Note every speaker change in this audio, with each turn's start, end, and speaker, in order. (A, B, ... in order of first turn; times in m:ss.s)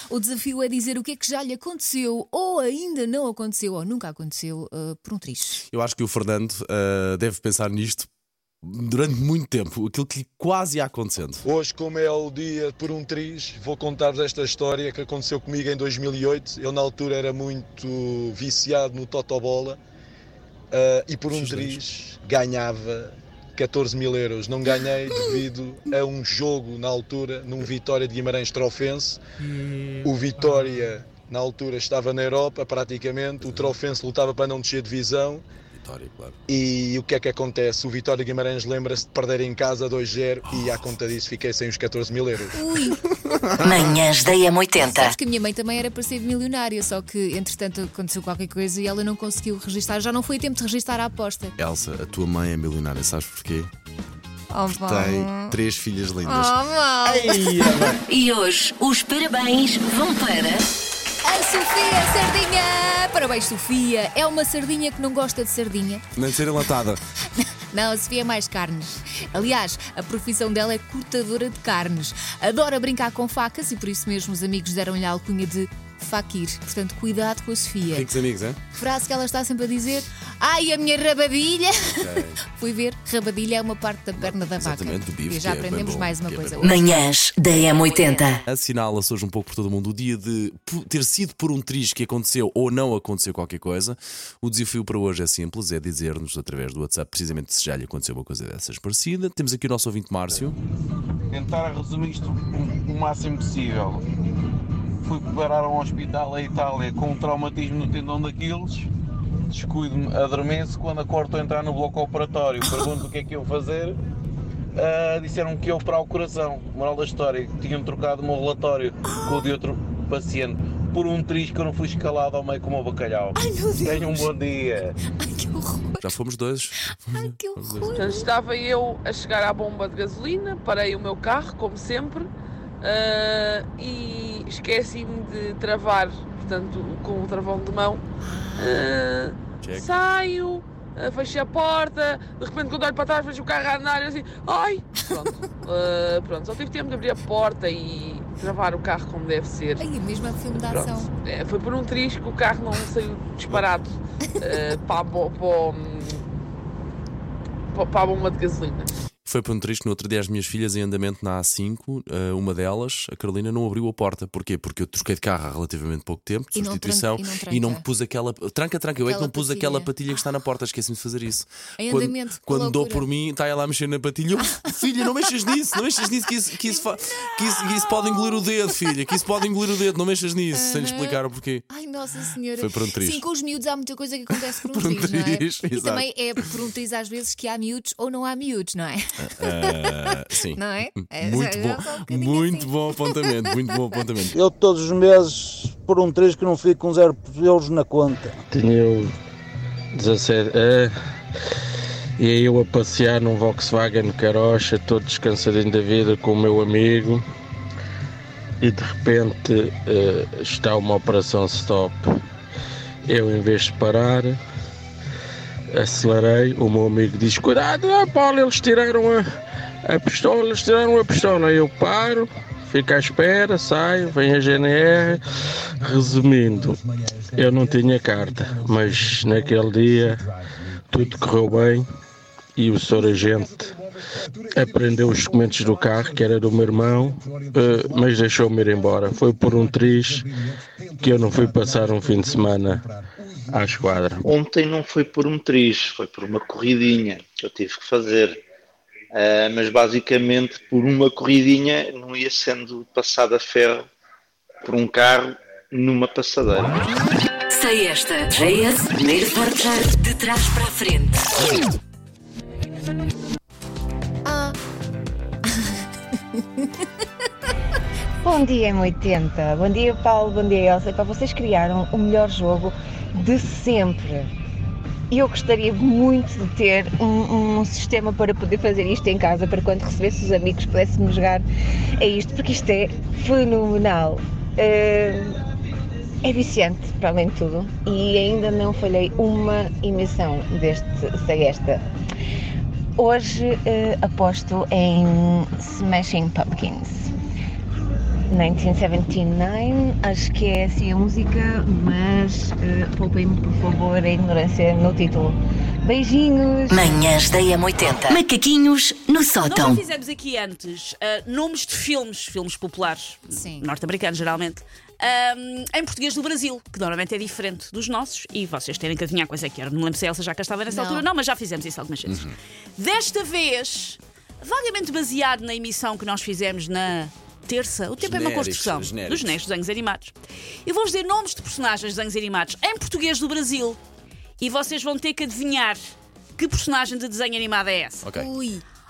0:00.1-0:05.6 A
0:05.6-0:08.1 B
0:08.6-0:11.4 B
0:11.4-0:19.8 C
0:20.7-0:29.2 C
0:21.3-0:21.8 B
0:30.0-0:35.4 C
0:30.4-0:30.8 D
0:33.4-0:33.8 B
0:35.7-0:36.4 B
0:36.5-0:42.5 C
0:42.5-0:43.0 A
0:43.6-0:45.1 E
0:44.8-0:51.5 A
0:51.6-0:53.7 B
0:54.5-0:55.6 A
0:54.7-0:56.6 B
0:56.2-0:57.6 A
0:57.4-0:57.8 B
0:58.1-1:00.6 E
1:01.2-1:06.0 A
1:06.2-1:07.0 B
1:07.7-1:18.1 A
1:17.9-1:18.6 B
1:18.7-1:27.0 A
1:21.9-1:22.4 B
1:24.2-1:27.0 B
1:26.6-1:28.4 E
1:28.4-1:40.6 B
1:41.3-1:44.0 D
1:45.0-1:48.9 D
1:49.5-1:54.0 D
1:54.8-2:05.0 D
1:59.0-1:59.5 A
2:03.3-2:04.3 A
2:05.1-2:06.1 A
2:06.0-2:08.0 B
2:07.1-2:08.3 A
2:08.0-2:12.3 F
2:12.8-2:18.0 F
2:18.2-2:18.9 A
2:18.6-2:29.9 F
2:19.6-2:19.9 B
2:29.8-2:31.1 A
2:30.5-2:36.2 F
2:37.7-2:38.9 F
2:39.2-3:01.7 B
2:46.5-2:47.8 A
2:49.0-2:49.9 A
2:51.8-2:53.1 A
2:57.8-2:58.4 A
3:00.5-3:10.0 A
3:02.6-3:03.2 B
3:04.3-3:06.4 B
3:09.2-3:10.6 B
3:10.5-3:12.8 A
3:11.1-3:14.3 B
3:14.4-3:18.2 G
3:18.5-3:19.1 H
3:19.9-3:20.9 H
3:22.2-3:27.2 H
3:28.6-3:32.0 H
3:33.1-3:34.4 H
3:35.7-3:39.2 H
3:39.8-3:46.8 H
3:47.3-3:50.3 H
3:50.9-3:51.8 H
3:52.6-3:53.7 H
3:54.5-4:00.3 H
4:01.0-4:02.9 H
4:03.5-4:04.2 H
4:04.2-4:08.3 I
4:09.1-4:13.8 I
4:14.6-4:16.8 I
4:17.5-4:21.3 E
4:24.2-4:24.6 A
4:28.2-4:34.3 J
4:35.1-4:41.4 J
4:42.0-4:45.3 J
4:46.2-4:51.8 J
4:53.0-4:57.1 J
4:58.3-5:07.1 J
5:06.7-5:09.8 E
5:09.4-5:22.2 K
5:13.3-5:13.7 A
5:20.7-5:21.1 A
5:22.0-5:22.3 B
5:22.8-5:30.1 K
5:28.0-5:29.4 B
5:30.6-5:33.8 K
5:34.4-5:38.1 K
5:38.0-5:38.3 B
5:38.1-5:38.6 A